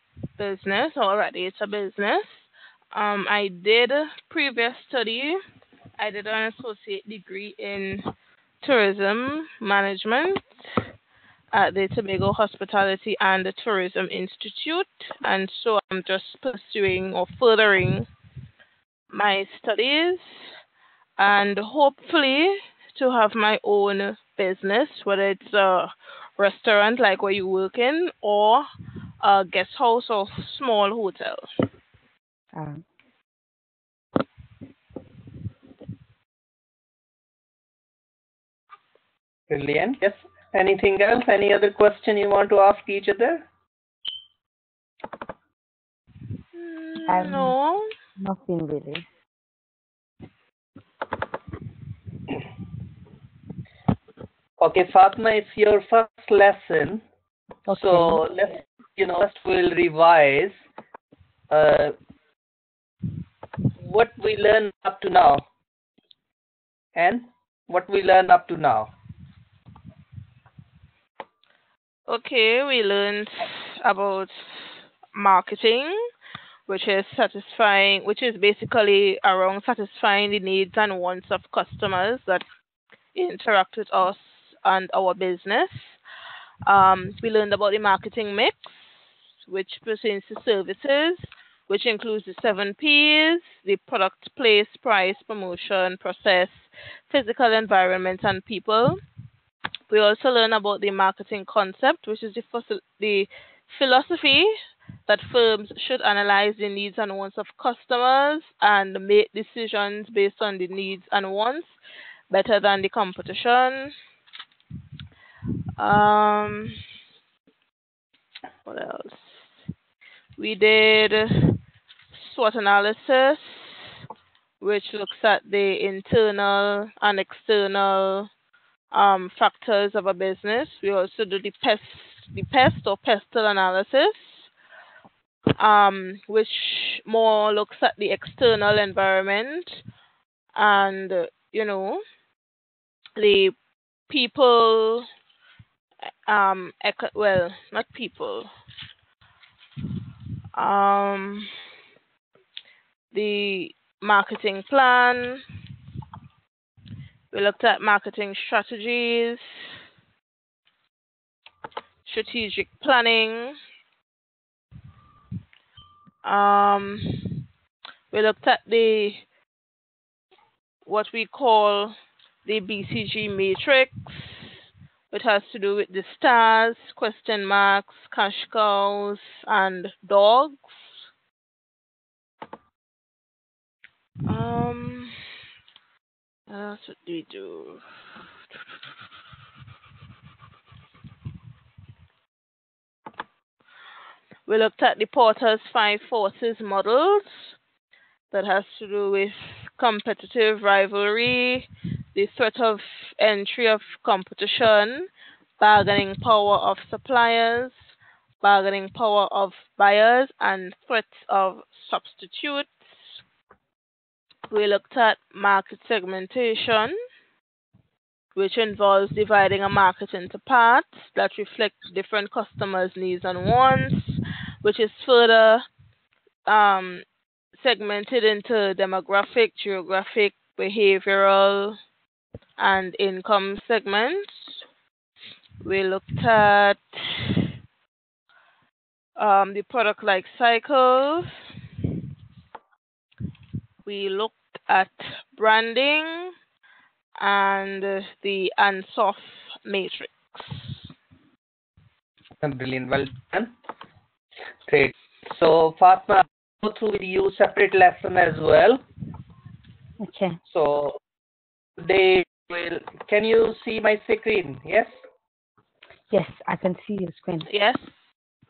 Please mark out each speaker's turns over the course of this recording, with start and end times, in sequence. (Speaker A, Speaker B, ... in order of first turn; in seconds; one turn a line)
Speaker A: 0.4-5.4
Speaker A: 6.0-8.1
Speaker A: 8.6-10.8
Speaker A: 11.5-18.1
Speaker A: 19.1-20.5
Speaker A: 21.2-28.6
Speaker A: 29.2-31.5
Speaker B: 32.5-32.8
Speaker C: 39.5-43.5
Speaker A: 46.5-47.9
Speaker B: 47.1-47.5
Speaker B: 48.2-49.0
Speaker C: 54.6-57.0
Speaker B: 57.7-58.2
Speaker C: 57.7-60.6
Speaker C: 61.5-61.9
Speaker C: 63.8-65.4
Speaker C: 66.9-68.9
Speaker A: 72.1-76.0
Speaker A: 76.7-82.5
Speaker A: 83.1-86.0
Speaker A: 86.7-99.0
Speaker A: 99.9-104.5
Speaker A: 105.1-111.8
Speaker A: 112.3-113.9
Speaker A: 115.8-116.8
Speaker A: 118.7-119.6
Speaker A: 120.4-121.6
Speaker A: 122.1-124.0
Speaker A: 124.6-128.3
Speaker A: 128.9-134.5
Speaker A: 135.6-139.8
Speaker A: 140.5-142.0
Speaker A: 143.2-143.6
Speaker A: 144.1-145.1
Speaker A: 146.3-148.5
Speaker A: 150.6-151.5
Speaker A: 153.1-155.4
Speaker A: 157.3-159.7
Speaker A: 162.1-163.6
Speaker A: 166.2-167.4
Speaker A: 168.1-169.2
Speaker A: 170.8-174.6
Speaker A: 175.1-181.0
Speaker A: 184.3-185.2
Speaker A: 186.5-187.8
Speaker A: 194.5-197.6
Speaker A: 198.3-213.2
Speaker A: 214.5-217.0
Speaker A: 218.3-225.7
Speaker A: 226.5-231.8
Speaker A: 232.6-234.6
Speaker A: 235.6-237.4
Speaker A: 239.2-241.4
Speaker A: 243.8-246.3
Speaker A: 247.2-250.8
Speaker C: 252.4-253.5
Speaker C: 254.6-258.8
Speaker B: 260.0-260.4
Speaker C: 260.4-261.0
Speaker C: 261.8-265.0
Speaker B: 266.1-267.5
Speaker A: 267.5-268.1